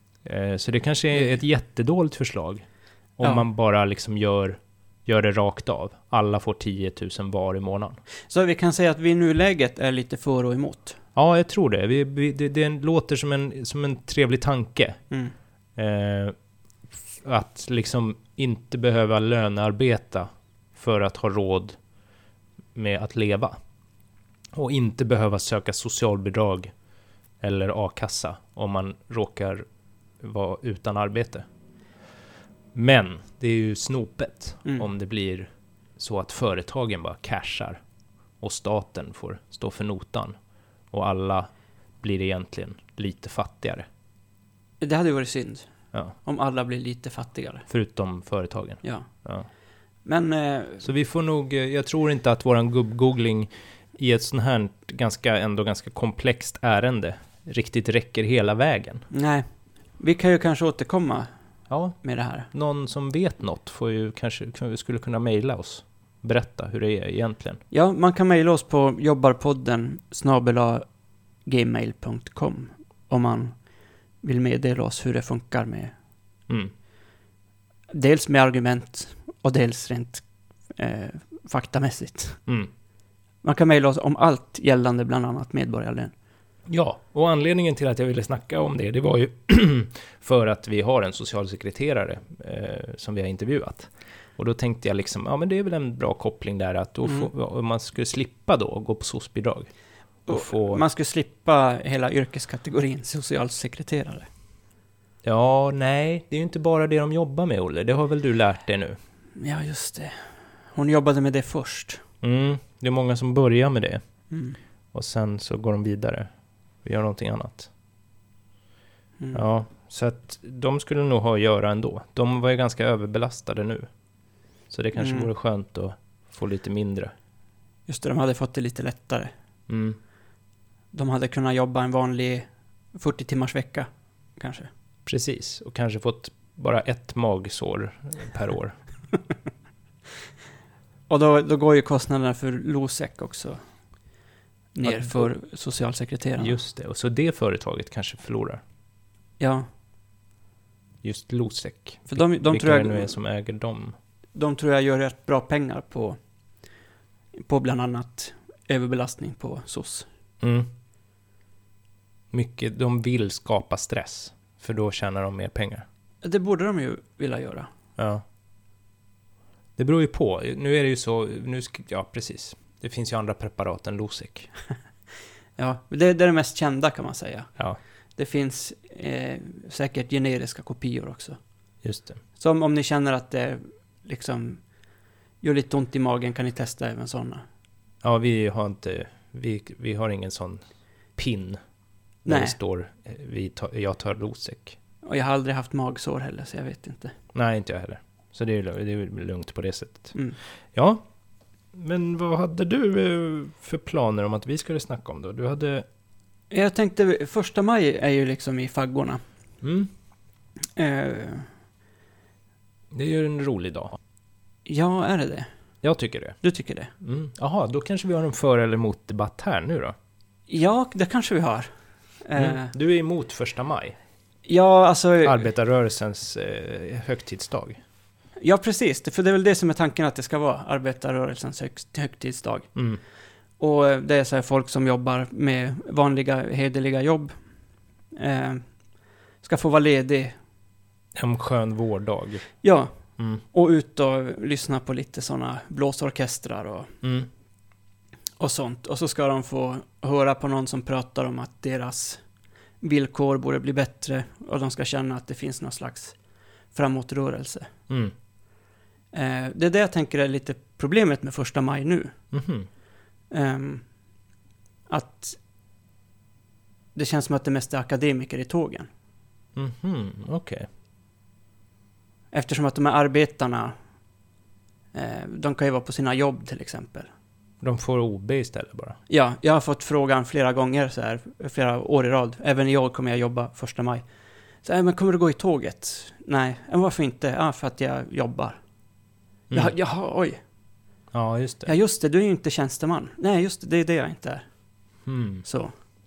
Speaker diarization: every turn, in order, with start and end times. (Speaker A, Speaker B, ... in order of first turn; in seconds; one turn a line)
Speaker A: 0.2-2.6
Speaker A: 3.2-8.0
Speaker B: 8.3-11.0
Speaker A: 11.2-15.0
Speaker A: 15.8-16.4
Speaker A: 17.1-21.8
Speaker A: 22.8-23.6
Speaker A: 24.5-26.7
Speaker A: 27.4-29.6
Speaker A: 30.2-31.5
Speaker A: 32.7-37.8
Speaker A: 38.4-40.4
Speaker A: 40.9-41.5
Speaker A: 42.0-43.9
Speaker B: 44.8-47.7
Speaker A: 47.7-49.5
Speaker B: 48.8-49.1
Speaker B: 50.0-50.9
Speaker A: 50.8-59.1
Speaker B: 59.1-59.5
Speaker B: 60.0-61.3
Speaker A: 61.7-62.0
Speaker B: 62.0-62.5
Speaker A: 62.5-67.6
Speaker B: 67.7-70.8
Speaker B: 71.5-73.5
Speaker B: 74.2-75.9
Speaker B: 77.9-80.2
Speaker B: 80.8-82.4
Speaker B: 83.4-86.1
Speaker A: 86.7-99.7
Speaker B: 100.3-104.3
Speaker A: 100.3-100.8
Speaker A: 105.2-109.0
Speaker B: 109.4-112.0
Speaker A: 112.2-114.0
Speaker B: 114.3-114.6
Speaker A: 114.9-116.3
Speaker A: 116.8-117.7
Speaker A: 119.3-123.9
Speaker A: 124.7-127.1
Speaker B: 125.0-125.3
Speaker B: 127.9-129.3
Speaker A: 129.7-130.0
Speaker B: 130.9-134.7
Speaker A: 135.1-138.8
Speaker B: 141.1-143.6
Speaker B: 144.7-146.6
Speaker A: 144.8-145.3
Speaker A: 146.4-148.6
Speaker B: 149.4-149.7
Speaker A: 151.0-153.9
Speaker B: 152.1-153.2
Speaker B: 154.3-156.2
Speaker B: 157.4-160.1
Speaker A: 160.4-160.7
Speaker A: 162.3-165.8
Speaker B: 166.2-167.7
Speaker A: 168.0-168.2
Speaker A: 169.8-174.5
Speaker B: 175.6-177.5
Speaker B: 178.2-181.4
Speaker A: 181.8-182.2
Speaker B: 182.4-184.6
Speaker B: 185.4-187.4
Speaker A: 188.0-190.6
Speaker A: 191.2-191.6
Speaker B: 192.2-192.6
Speaker A: 192.2-194.8
Speaker B: 195.1-197.2
Speaker A: 197.3-200.2
Speaker A: 200.7-201.1
Speaker A: 201.7-205.9
Speaker B: 206.5-209.2
Speaker A: 209.6-209.9
Speaker B: 210.8-211.5
Speaker A: 212.9-214.0
Speaker B: 214.7-215.5
Speaker A: 215.8-216.4
Speaker B: 216.4-216.9
Speaker A: 217.0-219.9
Speaker B: 220.5-221.7
Speaker B: 222.2-222.7
Speaker A: 222.4-224.0
Speaker B: 224.4-225.5
Speaker A: 225.2-227.8
Speaker B: 228.4-232.7
Speaker A: 232.8-233.0
Speaker B: 233.6-237.3
Speaker B: 238.2-238.7
Speaker B: 239.4-240.4
Speaker A: 241.2-242.5
Speaker B: 242.6-246.9
Speaker A: 247.0-247.3
Speaker B: 248.4-252.2
Speaker B: 252.8-256.2
Speaker B: 256.7-257.7
Speaker A: 257.9-258.1
Speaker B: 259.1-262.1
Speaker A: 262.3-262.7
Speaker B: 263.3-263.9
Speaker B: 264.9-265.4
Speaker B: 266.9-268.9
Speaker A: 269.6-270.7
Speaker B: 272.3-273.8
Speaker B: 274.9-277.1
Speaker A: 277.6-279.0
Speaker B: 279.1-284.0
Speaker B: 284.6-288.6
Speaker B: 289.5-290.4
Speaker A: 291.1-291.8
Speaker B: 291.7-294.5
Speaker A: 295.1-295.5
Speaker B: 295.4-295.7